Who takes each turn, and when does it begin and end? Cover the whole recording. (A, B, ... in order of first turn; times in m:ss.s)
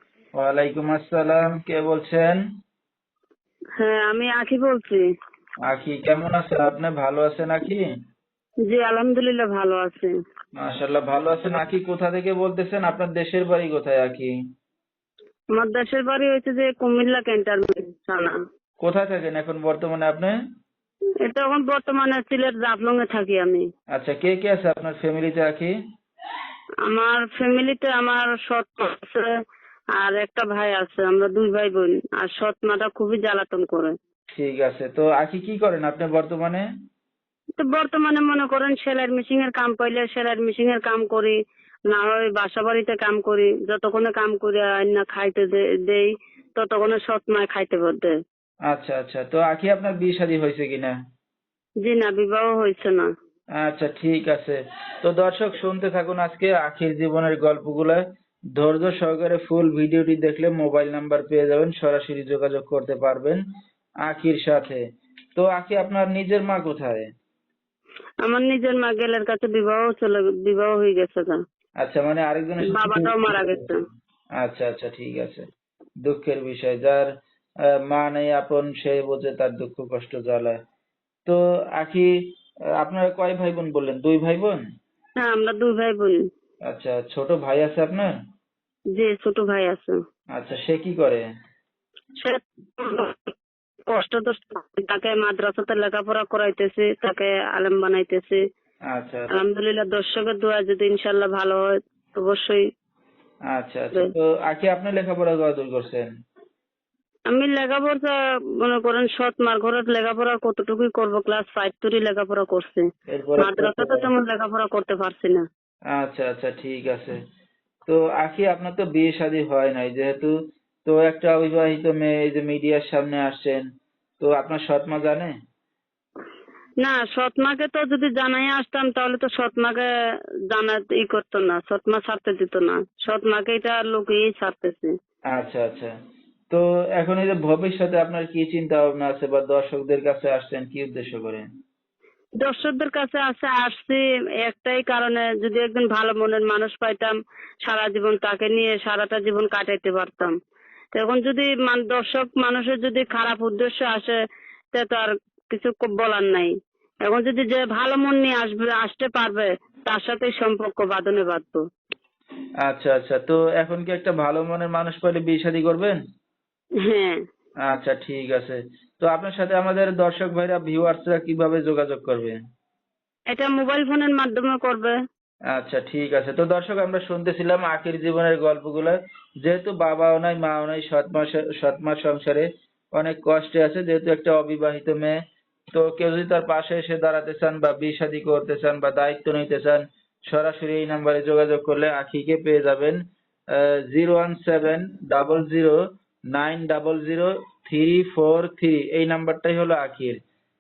0:00.4-0:02.4 A
0:03.8-0:05.0 B
0:05.7-0:07.8 A
0:08.7-0:10.1 B
0:10.6-0:14.3 A
0:15.6-0:18.4 B
0:18.8-0:20.3 A
0:21.2-0:23.6 B
0:23.9-0:25.7 A
0:26.9-0:29.3 B
0:30.0-0:33.9 B
0:34.4-0:36.6 A
0:37.6-0:41.4 B
0:41.9-0:48.1 B
0:48.7-0:51.0 A
0:51.8-0:53.1 B
0:53.6-0:58.0 A
0:58.6-1:03.4 A
1:04.1-1:04.8 A
1:05.4-1:07.1 A
1:08.2-1:11.4 B
1:11.8-1:13.6 A
1:12.7-1:13.8 B
1:14.4-1:15.4 A
1:16.1-1:17.1 A
1:17.9-1:20.6 A
1:21.3-1:22.1 A
1:22.8-1:24.6 A
1:25.2-1:26.2 B
1:26.7-1:28.1 A
1:29.0-1:30.0 B
1:30.4-1:31.2 A
1:32.2-1:33.3 B
1:33.9-1:38.4 B
1:38.9-1:39.3 A
1:39.3-1:42.6 B
1:43.5-1:46.1 A
1:47.3-1:52.8 B
1:53.1-1:54.1 A
1:53.4-1:55.4 B
1:56.0-1:57.2 A
1:57.9-2:00.3 A
2:00.9-2:03.6 A
2:04.2-2:05.3 A
2:06.8-2:09.9 B
2:10.5-2:14.9 B
2:15.3-2:15.9 A
2:16.5-2:21.5 A
2:22.4-2:30.3 B
2:31.0-2:34.2 B
2:34.7-2:36.5 B
2:37.0-2:41.6 B
2:42.6-2:46.0 A
2:46.9-2:47.2 B
2:47.7-2:52.4 A
2:53.3-2:55.0 B
2:55.5-3:05.2 A
3:05.8-3:13.0 A
3:13.5-3:15.8 A
3:16.3-3:20.2 A